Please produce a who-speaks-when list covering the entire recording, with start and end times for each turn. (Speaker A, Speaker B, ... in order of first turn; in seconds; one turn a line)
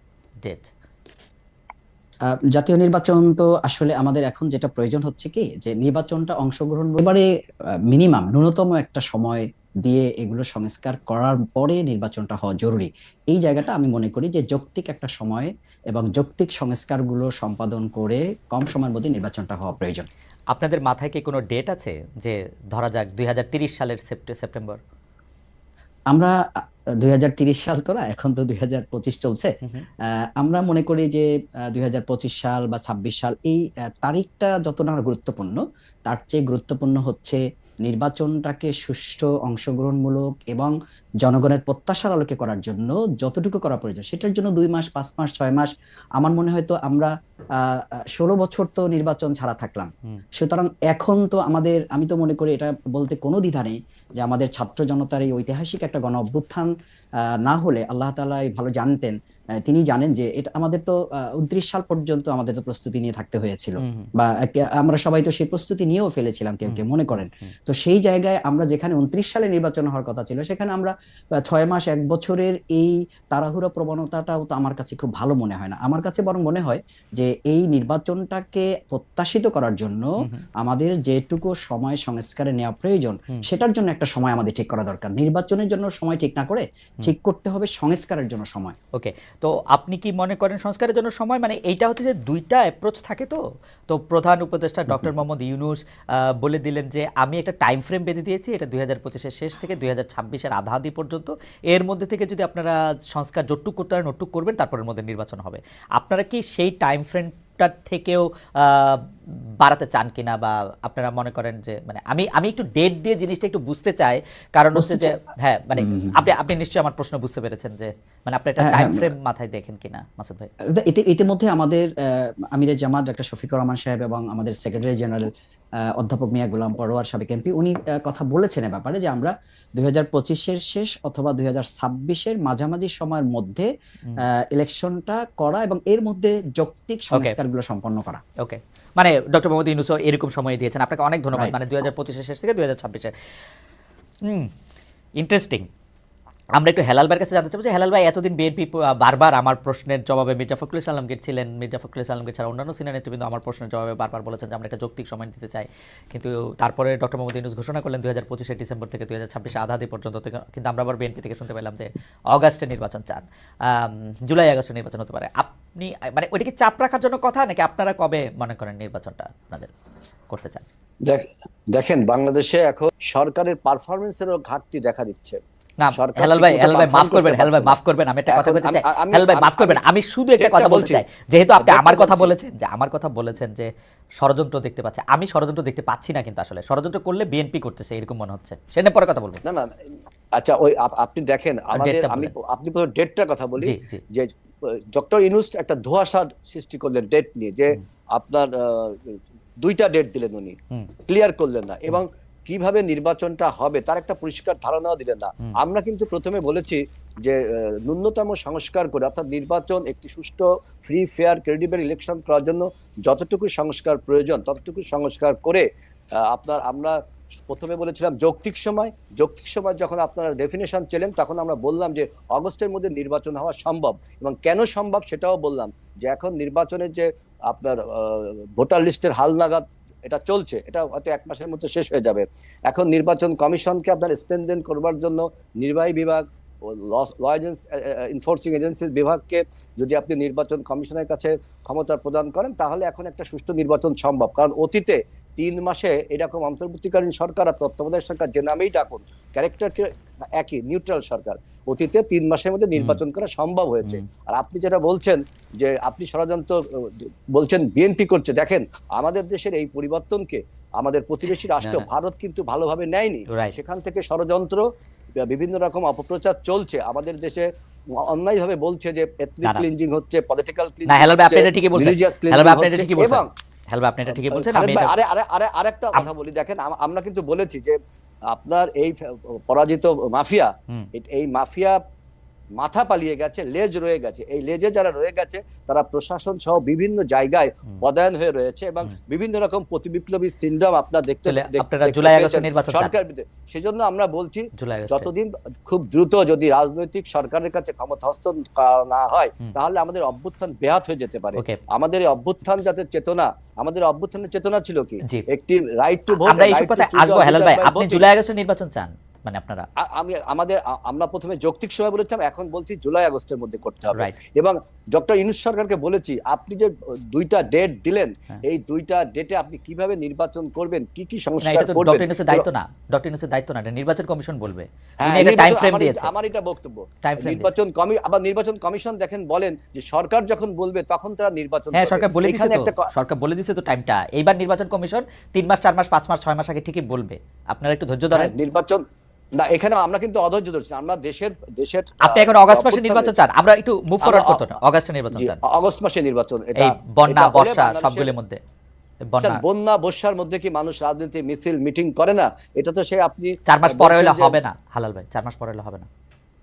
Speaker A: 0.4-0.7
Speaker B: 2.3-7.2
Speaker B: 7.9-20.1
Speaker A: 20.5-24.8
Speaker B: 27.0-29.5
Speaker B: 30.4-47.1
Speaker B: 47.6-56.7
Speaker B: 57.5-59.1
Speaker B: 59.6-70.9
Speaker A: 63.8-64.1
Speaker A: 66.7-67.5
Speaker B: 71.5-80.1
Speaker B: 80.6-88.8
Speaker A: 89.0-109.1
Speaker A: 109.6-120.5
Speaker B: 114.8-115.2
Speaker B: 115.8-116.3
Speaker B: 118.6-119.1
Speaker B: 120.7-125.3
Speaker B: 126.0-133.7
Speaker B: 134.2-138.2
Speaker A: 138.4-143.1
Speaker A: 144.2-144.5
Speaker A: 145.2-145.7
Speaker A: 146.6-169.7
Speaker A: 170.3-170.6
Speaker C: 171.1-175.4
Speaker A: 175.8-189.4
Speaker C: 175.9-177.8
Speaker C: 178.3-179.8
Speaker C: 180.4-181.0
Speaker C: 181.6-182.3
Speaker C: 189.4-200.6
Speaker A: 191.7-192.3
Speaker A: 193.6-194.0
Speaker C: 201.1-215.7
Speaker C: 216.2-217.0
Speaker C: 217.5-264.6
Speaker A: 252.8-253.0
Speaker A: 261.6-261.9
Speaker A: 263.3-263.6
Speaker C: 265.2-273.3
Speaker A: 270.9-274.9
Speaker C: 274.1-277.8
Speaker C: 278.3-281.8
Speaker C: 282.6-308.1
Speaker A: 291.2-292.9
Speaker A: 294.6-295.1
Speaker A: 306.1-309.7
Speaker C: 309.8-322.5
Speaker A: 321.4-326.1
Speaker C: 325.0-332.9
Speaker A: 327.0-327.5
Speaker A: 331.7-338.3
Speaker C: 338.1-338.8
Speaker C: 339.4-343.1
Speaker A: 342.0-345.4
Speaker C: 344.0-344.5
Speaker C: 345.1-348.1
Speaker A: 346.6-348.4
Speaker A: 349.1-349.4
Speaker C: 349.2-354.4
Speaker A: 353.5-355.9